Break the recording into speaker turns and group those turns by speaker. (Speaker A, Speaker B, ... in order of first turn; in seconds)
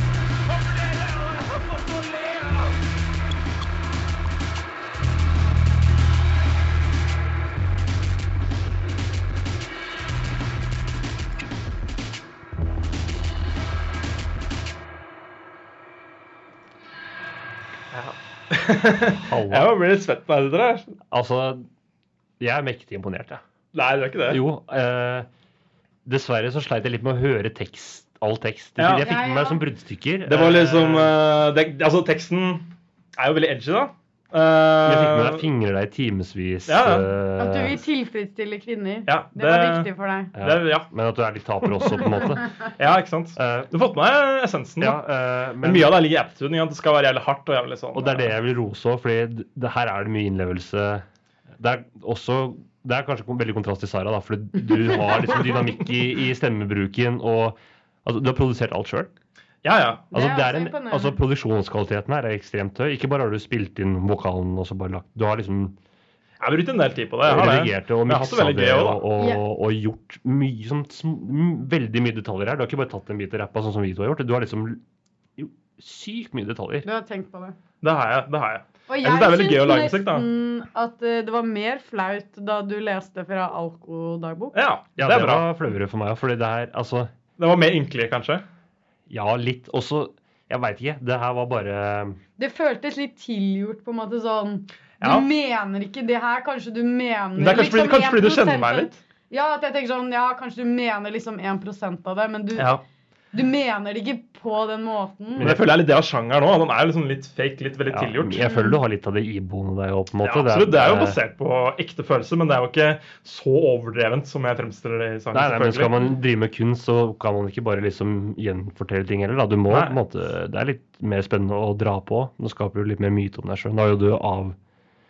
Speaker A: 0.5-2.8
Speaker B: 17.9-20.9, 23.7-24.4, 28.8-29.1, 30.3-35.5, 36.7-37.1, 39.1-40.9, 41.7-42.1, 42.7-45.0, 45.6-48.3, 59.6-60.1, 66.4-69.0, 77.8-80.2, 84.5-85.5, 87.4-88.4, 95.0-95.3, 97.4-99.0, 102.5-102.8, 105.4-108.6, 110.2-116.0, 119.7-120.0
Speaker C: 19.3-19.7, 21.1-21.7, 22.4-23.4, 24.3-25.3, 26.1-31.2, 34.9-37.8, 40.4-42.5, 43.4-43.7, 44.8-46.0, 47.9-51.0, 51.6-59.1, 60.1-65.8, 67.2-74.8, 75.4-76.9, 85.0-87.1, 89.1-92.2, 105.4-105.8, 107.9-111.2, 115.3-124.6
Speaker D: 28.9-29.6, 37.4-40.3, 60.1-61.2, 76.8-77.6, 78.9-84.6, 92.4-102.7, 103.3-105.5